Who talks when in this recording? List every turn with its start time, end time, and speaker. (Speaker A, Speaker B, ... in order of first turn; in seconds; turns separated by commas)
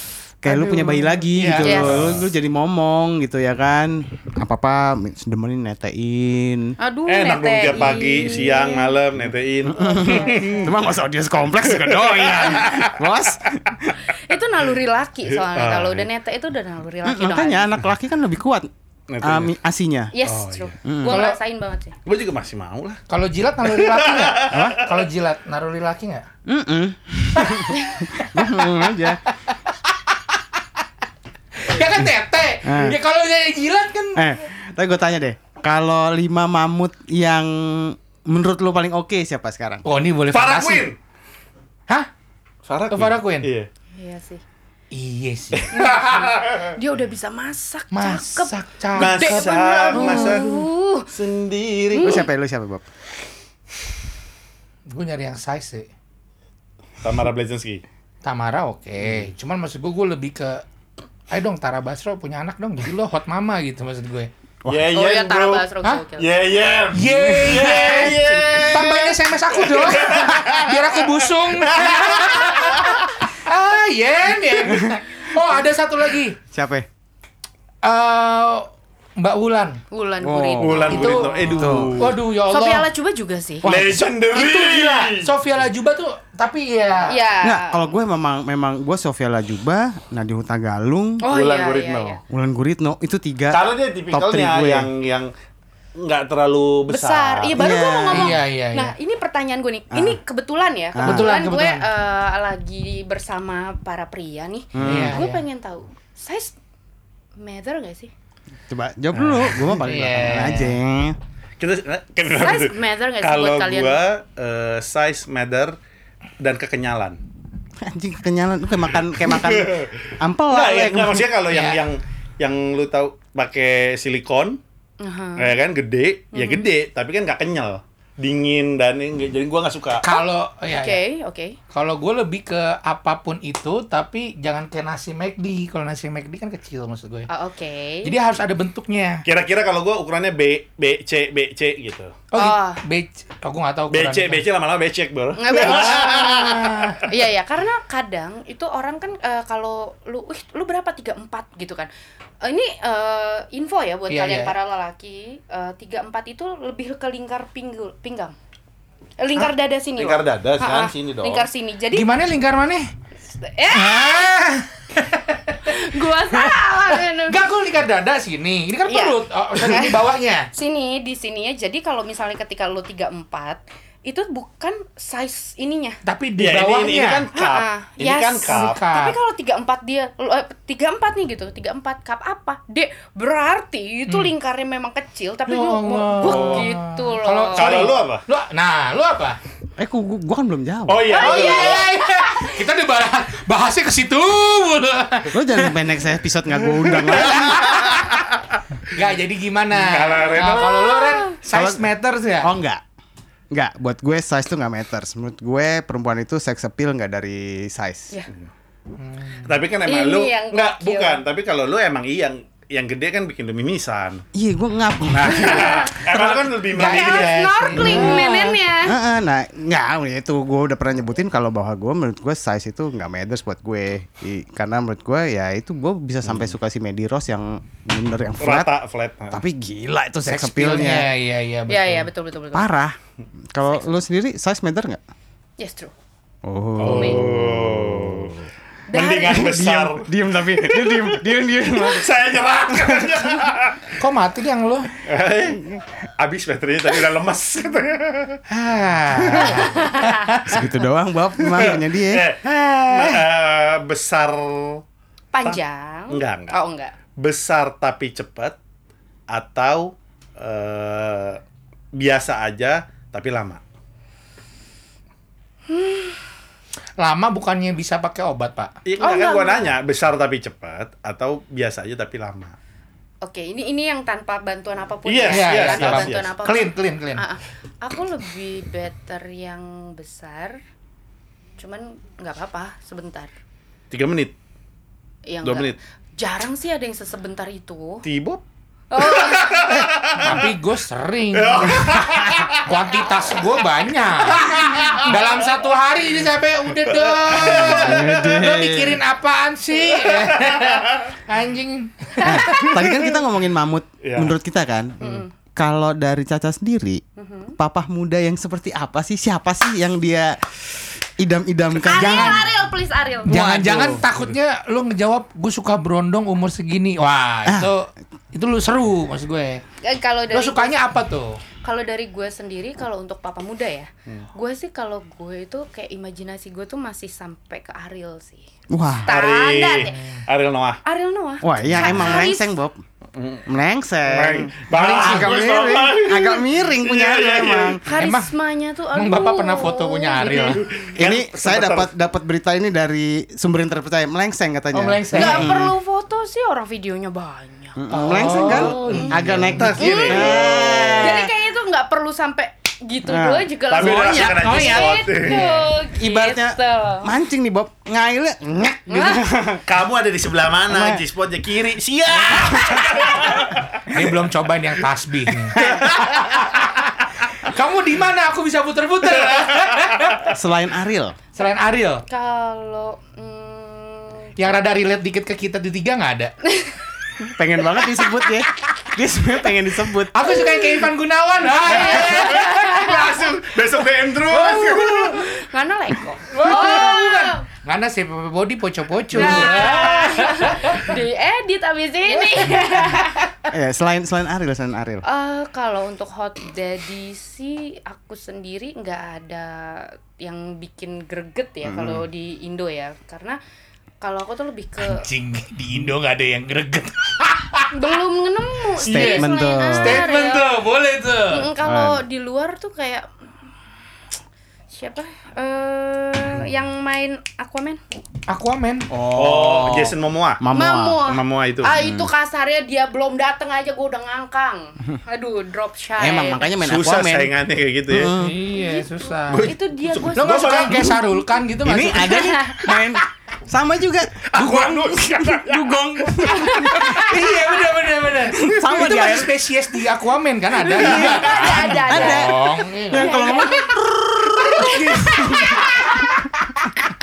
Speaker A: 0.4-6.7, Speaker B: 0.5-2.2, Speaker C: 1.6-2.1, Speaker D: 1.8-2.2, Speaker C: 6.8-9.0, Speaker D: 7.1-10.8, Speaker A: 9.7-13.9, Speaker C: 9.9-10.6, Speaker D: 11.5-13.0, Speaker C: 14.1-17.7, Speaker D: 15.3-16.1, Speaker A: 17.0-18.7, Speaker D: 19.1-19.5, Speaker A: 19.2-20.1, Speaker C: 20.1-21.9, Speaker D: 20.2-20.7, Speaker A: 20.8-21.2, Speaker B: 21.1-21.4, Speaker D: 22.0-23.0, Speaker B: 23.1-26.3, Speaker D: 23.6-25.0, Speaker A: 24.5-24.8, Speaker A: 26.4-29.2, Speaker B: 27.3-30.2, Speaker B: 31.5-34.2, Speaker A: 32.6-33.0, Speaker A: 34.1-39.9, Speaker B: 39.8-40.9, Speaker D: 40.3-41.0, Speaker D: 42.6-43.7, Speaker B: 42.9-43.5, Speaker C: 43.9-44.4, Speaker B: 44.9-46.3, Speaker C: 45.7-51.1, Speaker D: 46.4-46.7, Speaker B: 47.9-50.4, Speaker D: 48.9-52.2, Speaker C: 51.9-52.2, Speaker A: 52.0-52.8, Speaker B: 54.9-55.9, Speaker D: 57.0-57.8, Speaker B: 58.2-60.6, Speaker B: 61.3-64.3, Speaker A: 64.6-64.9, Speaker D: 64.7-73.0, Speaker C: 64.9-66.3, Speaker B: 66.9-76.4, Speaker A: 67.0-67.5, Speaker A: 76.5-76.9, Speaker B: 77.8-79.8, Speaker C: 79.9-81.6, Speaker A: 80.2-82.0, Speaker D: 80.6-82.2, Speaker B: 80.9-82.9, Speaker C: 82.5-83.7, Speaker A: 83.6-84.0, Speaker D: 83.6-85.3, Speaker B: 84.3-87.2, Speaker C: 87.1-87.8, Speaker A: 87.4-91.3, Speaker C: 91.2-92.2, Speaker D: 91.3-92.2, Speaker A: 92.2-94.9, Speaker D: 93.5-95.3, Speaker D: 96.0-97.6, Speaker C: 96.9-106.5, Speaker A: 97.5-98.4, Speaker B: 98.1-98.9, Speaker A: 99.9-100.2, Speaker A: 100.9-101.3, Speaker B: 101.0-101.9, Speaker A: 104.7-105.2, Speaker B: 104.8-105.4, Speaker C: 107.4-108.1, Speaker A: 108.7-111.2, Speaker B: 109.5-110.8, Speaker D: 111.6-115.8, Speaker C: 112.3-114.0, Speaker D: 116.4-117.2, Speaker A: 117.8-121.3, Speaker D: 119.2-124.6, Speaker B: 121.5-121.8, Speaker C: 125.0-125.5, Speaker D: 125.4-130.1, Speaker C: 126.3-126.6, Speaker B: 130.0-131.0, Speaker C: 130.1-131.6, Speaker B: 131.7-137.3, Speaker C: 137.3-138.1, Speaker B: 138.0-139.2, Speaker D: 139.2-142.1, Speaker B: 142.3-144.4, Speaker C: 142.3-142.8, Speaker D: 143.9-147.0, Speaker C: 145.4-151.9, Speaker B: 145.6-147.0, Speaker C: 152.4-158.3, Speaker B: 154.1-154.5, Speaker C: 159.2-162.1, Speaker D: 159.4-161.5, Speaker B: 161.9-162.9, Speaker C: 163.4-164.3, Speaker B: 163.7-170.5, Speaker C: 165.6-167.4, Speaker C: 168.9-170.0, Speaker C: 170.5-176.0, Speaker B: 176.0-177.2, Speaker D: 176.4-178.8, Speaker C: 177.3-187.9, Speaker B: 178.5-179.2, Speaker B: 185.5-189.4, Speaker D: 186.2-186.7, Speaker D: 187.5-188.2, Speaker A: 189.8-191.2, Speaker D: 190.9-191.9, Speaker C: 191.1-192.6, Speaker B: 191.2-195.8, Speaker A: 195.3-198.0, Speaker D: 196.9-198.2, Speaker B: 197.3-198.1, Speaker B: 198.9-202.5, Speaker D: 199.7-200.8, Speaker C: 200.4-201.4, Speaker A: 201.5-201.9, Speaker A: 202.4-202.8, Speaker A: 203.5-208.1, Speaker B: 209.0-209.5, Speaker D: 209.4-214.2, Speaker C: 209.8-211.2, Speaker A: 214.3-216.5, Speaker B: 215.2-215.9, Speaker D: 215.2-217.6, Speaker C: 215.4-215.9, Speaker B: 216.6-218.5, Speaker C: 216.8-218.9, Speaker A: 217.8-228.7, Speaker D: 228.4-229.4, Speaker A: 229.3-231.1, Speaker B: 230.2-232.1, Speaker C: 231.7-232.7, Speaker A: 232.5-233.0, Speaker A: 233.5-235.0, Speaker C: 233.6-233.9, Speaker C: 235.6-235.9, Speaker A: 236.4-238.4, Speaker D: 236.8-238.4, Speaker C: 236.8-237.2, Speaker C: 238.9-239.6, Speaker D: 238.9-240.1, Speaker A: 239.3-242.2, Speaker D: 240.7-241.0, Speaker D: 241.8-243.9, Speaker A: 242.7-243.2, Speaker B: 244.0-244.9, Speaker D: 245.0-245.7, Speaker D: 246.2-248.4, Speaker B: 248.5-250.6, Speaker A: 249.2-249.5, Speaker C: 249.4-250.3, Speaker A: 250.4-253.2, Speaker D: 251.4-254.8, Speaker C: 255.3-256.9, Speaker D: 255.4-256.6, Speaker D: 257.2-258.6, Speaker D: 259.3-261.4, Speaker D: 261.9-263.6, Speaker C: 265.7-266.2, Speaker B: 267.0-268.7, Speaker D: 268.8-272.5, Speaker C: 269.0-269.7, Speaker C: 273.2-280.6, Speaker D: 275.1-276.3, Speaker B: 275.3-277.2, Speaker C: 281.6-283.3, Speaker D: 283.9-284.3, Speaker C: 285.3-288.0, Speaker D: 285.4-285.8, Speaker D: 288.0-288.4, Speaker C: 288.9-289.7, Speaker D: 289.0-290.5, Speaker B: 289.5-303.0, Speaker D: 291.3-292.6, Speaker D: 297.0-298.4, Speaker A: 297.4-299.0, Speaker D: 299.9-301.1, Speaker A: 302.2-305.0, Speaker C: 302.2-302.8, Speaker D: 304.0-304.3, Speaker C: 305.0-305.3, Speaker A: 305.5-307.0, Speaker C: 307.2-307.6, Speaker A: 307.6-312.5, Speaker C: 311.8-313.4, Speaker B: 311.9-312.4, Speaker B: 313.3-319.6, Speaker A: 313.4-313.8, Speaker D: 313.4-314.3, Speaker A: 317.4-317.7, Speaker C: 319.8-320.8, Speaker B: 320.3-321.4, Speaker C: 321.6-328.5, Speaker A: 328.7-329.1, Speaker C: 329.0-330.0, Speaker D: 329.1-330.8, Speaker C: 330.8-332.5, Speaker A: 331.4-332.8, Speaker D: 331.8-332.2, Speaker D: 333.1-333.4, Speaker A: 333.4-337.8, Speaker D: 334.1-337.8, Speaker B: 334.7-335.5, Speaker C: 337.8-340.7, Speaker B: 337.9-338.3, Speaker B: 338.9-340.7, Speaker D: 340.6-341.9, Speaker A: 340.9-345.7, Speaker B: 344.7-345.5, Speaker C: 345.1-349.1, Speaker A: 347.8-351.3, Speaker B: 347.9-349.7, Speaker D: 348.3-351.3, Speaker C: 349.7-357.1, Speaker A: 353.1-355.4, Speaker D: 353.7-355.4, Speaker B: 355.2-355.7, Speaker A: 355.9-359.6, Speaker C: 358.9-359.2, Speaker D: 359.6-363.8, Speaker A: 360.7-361.0, Speaker A: 362.1-363.4, Speaker B: 363.9-370.3, Speaker A: 365.5-365.9, Speaker D: 365.6-366.2, Speaker A: 370.3-371.2, Speaker B: 371.3-372.0, Speaker C: 372.1-374.5, Speaker B: 374.4-376.3, Speaker C: 376.4-376.8, Speaker A: 377.2-380.5, Speaker B: 380.1-382.9, Speaker C: 380.3-380.8, Speaker C: 381.5-383.2, Speaker D: 381.9-385.3, Speaker C: 384.3-387.4, Speaker B: 386.1-391.0, Speaker C: 389.1-393.3, Speaker B: 392.3-392.9, Speaker A: 393.5-395.0, Speaker C: 395.0-403.4, Speaker A: 401.6-402.0, Speaker C: 404.0-405.1, Speaker B: 404.8-407.7, Speaker C: 407.7-410.5, Speaker A: 408.8-410.1, Speaker B: 408.9-411.5, Speaker C: 411.3-413.1, Speaker A: 411.6-412.0, Speaker C: 414.7-417.8, Speaker B: 418.3-418.9, Speaker A: 418.9-421.1, Speaker D: 419.1-420.4, Speaker C: 420.5-426.5, Speaker D: 421.1-421.8, Speaker A: 421.7-422.1, Speaker A: 426.0-427.3, Speaker D: 426.6-428.1, Speaker A: 427.9-428.5, Speaker B: 428.1-429.5, Speaker C: 428.5-430.9, Speaker D: 429.3-431.0, Speaker B: 430.1-432.4, Speaker A: 431.6-437.1, Speaker C: 431.8-432.9, Speaker D: 434.2-435.8, Speaker C: 436.2-437.4, Speaker B: 436.7-443.5, Speaker A: 438.3-439.3, Speaker A: 440.6-445.7, Speaker D: 440.7-441.2, Speaker C: 440.8-443.8, Speaker C: 444.4-446.1, Speaker B: 444.6-445.9